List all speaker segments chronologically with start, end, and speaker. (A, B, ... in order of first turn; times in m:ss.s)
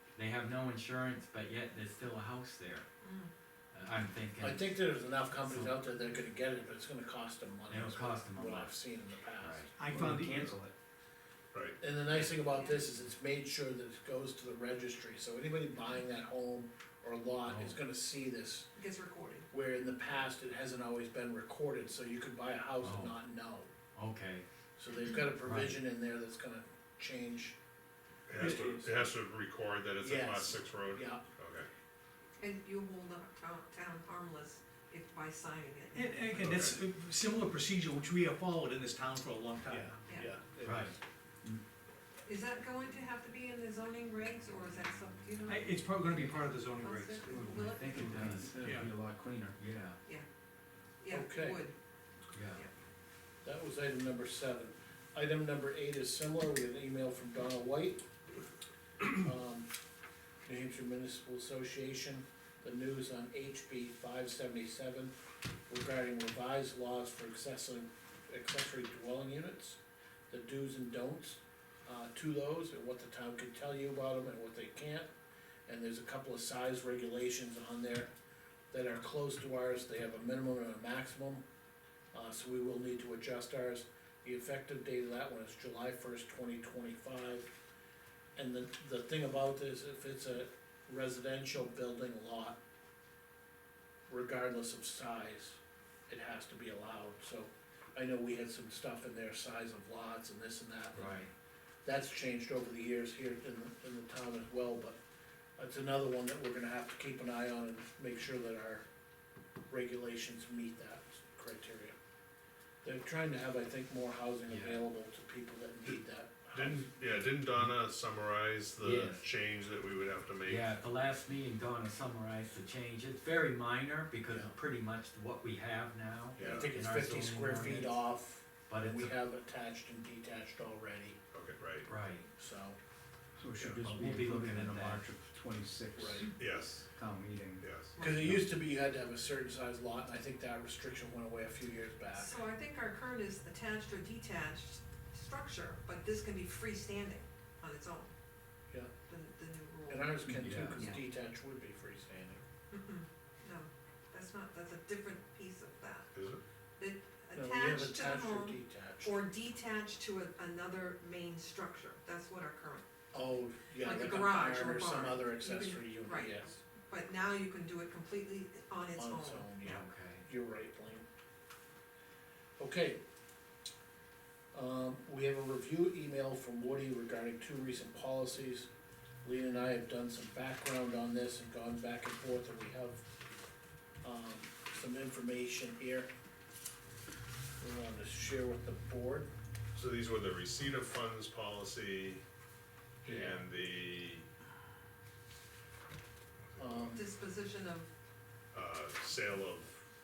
0:00.2-0:02.9 A
0:03.0-0:03.3 B
0:03.7-0:04.7 A
0:04.4-0:09.7 C
0:05.5-0:05.7 A
0:07.7-0:08.8 A
0:09.4-0:09.7 A
0:09.8-0:10.6 D
0:09.9-0:10.7 E
0:11.8-0:18.7 C
0:12.3-0:12.8 B
0:17.5-0:17.8 A
0:18.8-0:19.5 B
0:19.5-0:23.7 C
0:22.8-0:23.2 A
0:24.0-0:24.4 A
0:24.8-0:27.6 C
0:25.4-0:25.8 A
0:28.3-0:31.7 F
0:28.4-0:29.1 C
0:28.4-0:28.7 D
0:30.0-0:31.3 C
0:32.4-0:36.7 B
0:35.9-0:40.0 D
0:36.4-0:36.8 F
0:39.7-0:41.0 C
0:40.1-0:40.3 B
0:40.6-0:41.0 A
0:42.2-0:46.0 B
0:45.5-0:48.9 D
0:46.8-0:48.5 B
0:47.5-0:48.8 A
0:47.6-0:49.6 E
0:49.6-0:50.0 A
0:51.0-0:51.8 B
0:51.1-0:51.6 C
0:52.3-0:52.6 A
0:53.4-0:58.0 C
0:59.1-0:59.7 C
1:00.4-1:05.1 C
1:05.7-1:09.8 C
1:10.3-1:15.1 C
1:15.7-1:18.1 C
1:18.7-1:21.4 C
1:22.1-1:27.5 C
1:28.4-1:32.6 C
1:34.1-1:41.2 C
1:40.9-1:41.3 A
1:41.8-1:45.0 C
1:45.6-1:48.8 C
1:49.7-1:52.0 C
1:52.8-1:57.0 C
1:54.5-1:54.8 A
1:56.5-2:00.8 F
1:58.8-1:59.2 A
2:00.4-2:08.0 A
2:04.3-2:04.6 C
2:06.4-2:06.7 F
2:06.4-2:11.2 C
2:08.7-2:09.1 A
2:11.3-2:11.9 F
2:11.9-2:12.3 A
2:12.4-2:12.8 C
2:13.4-2:18.4 E
2:13.6-2:14.1 C
2:13.8-2:15.1 A
2:16.0-2:16.3 C
2:16.4-2:16.8 F
2:17.6-2:17.9 F
2:18.0-2:18.5 B
2:18.0-2:22.4 C
2:22.1-2:28.1 B
2:29.1-2:31.0 B
2:29.9-2:32.4 C
2:30.3-2:30.8 E
2:30.4-2:30.8 A
2:32.7-2:36.1 B
2:36.1-2:36.4 F
2:36.8-2:42.8 B
2:37.4-2:39.1 C
2:43.1-2:46.6 C
2:43.8-2:49.5 B
2:49.0-2:51.0 C
2:49.6-2:50.2 A
2:52.6-2:53.0 C
2:54.5-2:58.7 C
2:59.2-3:03.0 C
3:04.0-3:06.1 C
3:07.6-3:09.3 C
3:09.8-3:12.2 F
3:13.0-3:14.3 F
3:13.0-3:13.4 C
3:16.5-3:17.0 F
3:16.6-3:17.0 C
3:16.9-3:17.9 B
3:18.5-3:19.8 F